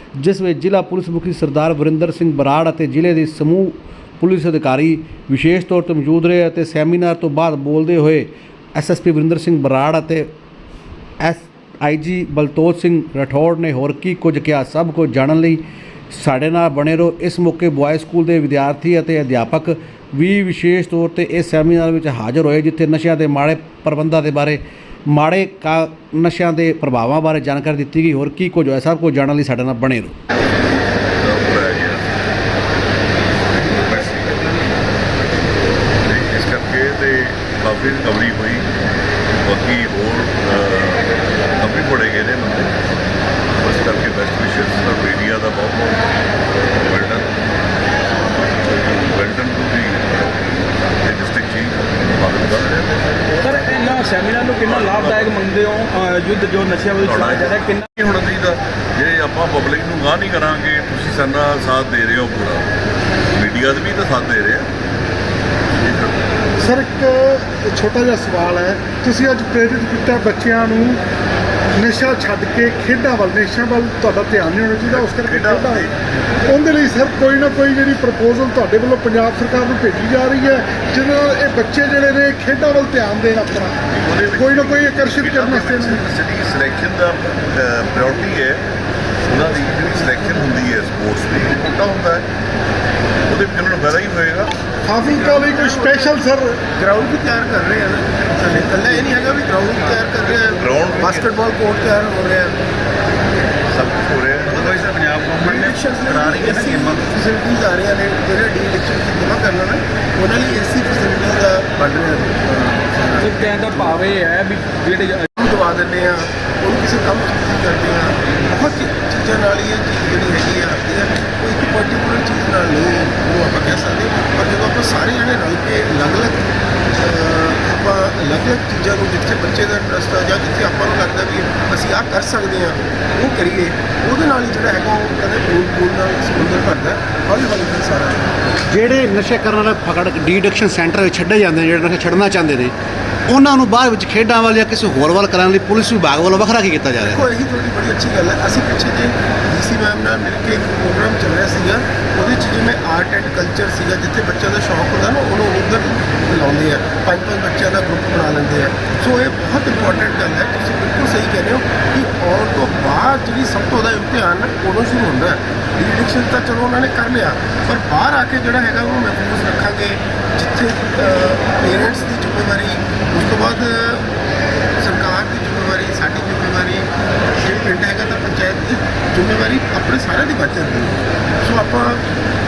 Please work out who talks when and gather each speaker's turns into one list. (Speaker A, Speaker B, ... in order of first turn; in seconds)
Speaker A: 0.1-10.3, 11.2-30.1, 138.7-142.7, 143.3-147.3
Speaker B: 31.2-32.0, 33.5-34.5, 36.0-38.6, 39.4-42.7, 43.6-45.9, 46.8-47.3, 48.6-55.5, 56.9-62.7, 63.3-64.7, 65.8-66.2, 74.8-75.9, 83.9-88.6, 89.2-92.2, 93.3-94.5, 100.5-101.3, 103.7-104.8
Speaker C: 53.4-57.8, 104.5-107.0, 113.2-115.3
Speaker D: 66.6-71.0, 71.8-75.9, 76.4-83.8, 84.3-86.0, 94.8-96.6
Speaker E: 95.0-96.2, 96.7-102.6, 104.6-114.0, 115.3-126.4, 127.0-138.3, 147.0-174.1, 174.8-182.0